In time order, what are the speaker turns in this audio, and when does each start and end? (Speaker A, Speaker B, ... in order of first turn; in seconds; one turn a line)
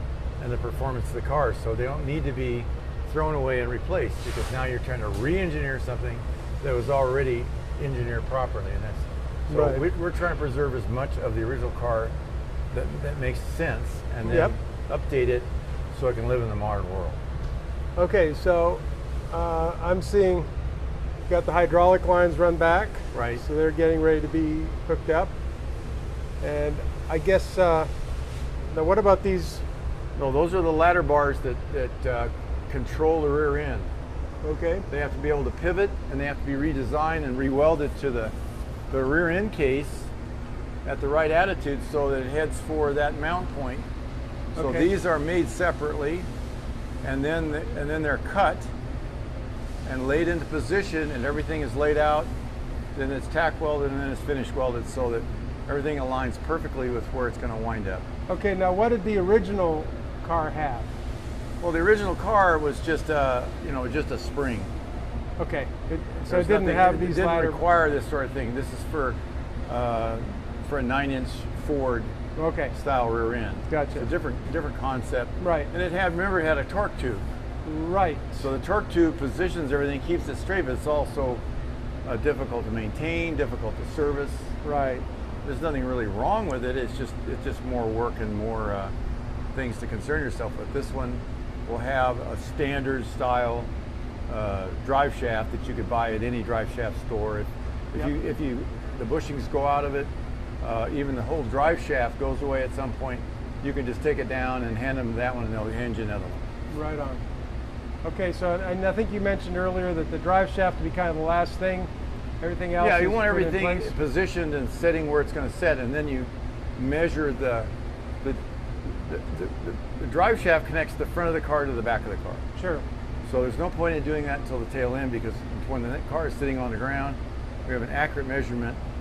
Speaker A: 0.4-12.1
Speaker B: 9.5-9.8
Speaker A: 12.7-17.2
Speaker B: 14.2-14.5
Speaker B: 17.9-20.5
Speaker B: 21.3-25.3
Speaker A: 23.1-23.4
Speaker B: 26.4-27.9
Speaker B: 28.7-29.6
Speaker A: 30.1-33.9
Speaker B: 34.4-34.9
Speaker A: 34.9-38.3
Speaker A: 38.9-40.1
Speaker A: 40.8-43.9
Speaker B: 44.5-44.9
Speaker A: 44.5-46.3
Speaker A: 47.0-48.7
Speaker A: 49.8-52.3
Speaker A: 52.9-58.0
Speaker B: 58.3-60.9
Speaker A: 61.6-64.7
Speaker B: 65.4-67.6
Speaker A: 66.3-72.1
Speaker B: 72.3-72.7
Speaker A: 72.7-77.2
Speaker B: 73.7-74.1
Speaker B: 75.4-75.7
Speaker B: 77.6-78.5
Speaker A: 78.4-81.4
Speaker A: 82.0-84.5
Speaker B: 84.6-85.0
Speaker A: 85.4-88.9
Speaker A: 89.5-93.7
Speaker A: 94.3-106.4
Speaker B: 106.7-107.2
Speaker B: 108.0-113.9
Speaker A: 112.8-117.7
Speaker A: 118.2-122.4
Speaker B: 122.5-122.8
Speaker A: 123.2-128.8